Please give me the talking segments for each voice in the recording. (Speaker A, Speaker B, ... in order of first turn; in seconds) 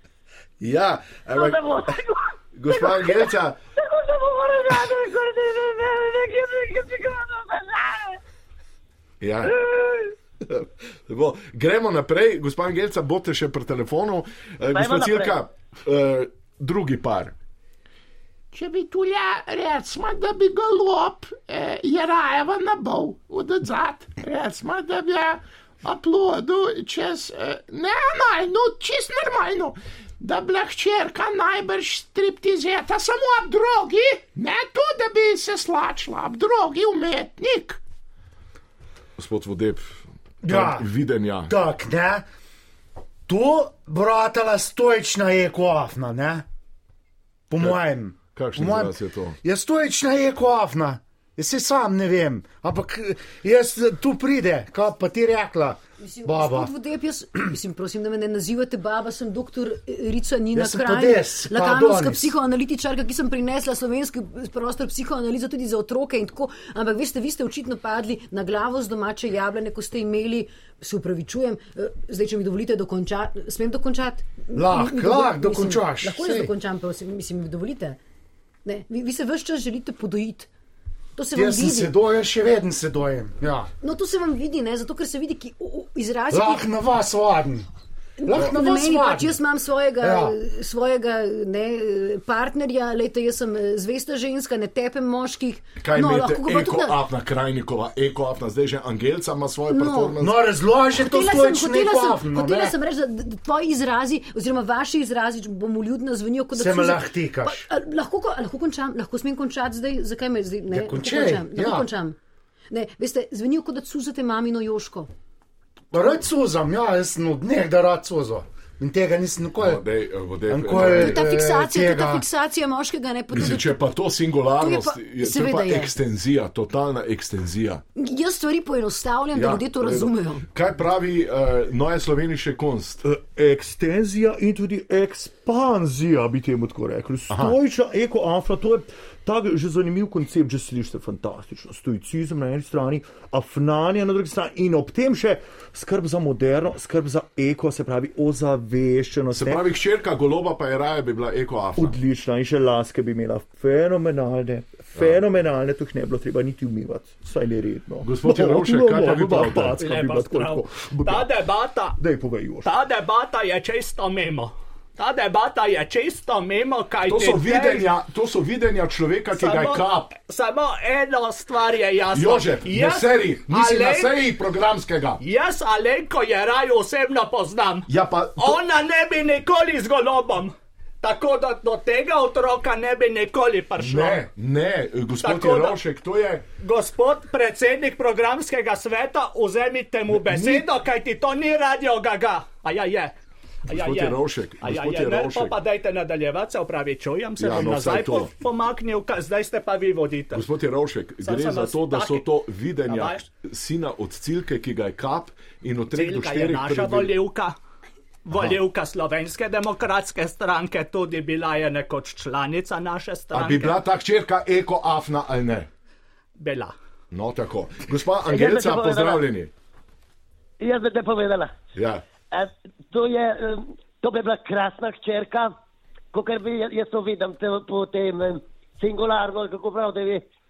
Speaker A: 0.6-1.6, 2.5-3.6, 9.2-9.5, 10.5-17.4, 39.2-41.6, 47.6-49.4, 95.8-100.4, 119.6-121.2, 123.3-127.8, 129.3-133.0, 137.3-137.6, 149.3-152.0, 154.9-155.2, 158.0-159.8, 167.1-170.1, 172.1-175.2, 177.9-178.6, 183.8-186.4, 190.3-190.6, 193.7-195.6, 197.4-198.3, 200.3-207.1, 213.3-215.7, 217.1-219.5, 221.8-222.0
Speaker B: 1.3-8.2, 9.5-10.1, 14.7-15.4, 218.3-219.2, 220.6-221.5, 222.3-225.5, 226.1-230.2
Speaker C: 18.5-37.8
Speaker D: 40.4-40.9, 41.5-42.3, 43.3-46.5, 47.5-56.7, 60.5-62.4, 74.5-76.5, 81.3-83.7, 86.3-87.7, 88.3-89.4, 90.0-90.3, 100.2-102.8, 106.5-107.7, 110.7-111.9, 115.9-119.8, 120.5-122.2
Speaker E: 56.0-78.0, 78.7-80.5, 81.2-81.9, 83.8-86.7, 88.2-97.0, 99.7-100.2, 101.0-112.2, 112.7-115.1, 120.8-123.8, 124.6-125.9, 128.0-130.4
Speaker F: 133.0-149.7, 151.8-161.4, 162.0-162.7
Speaker G: 159.7-162.0, 162.6-167.9, 169.3-174.2, 175.2-184.3, 185.2-185.8, 186.6-193.2, 193.7-200.5, 201.2-202.3, 202.9-203.2, 205.9-207.6, 208.2-213.8, 216.4-216.7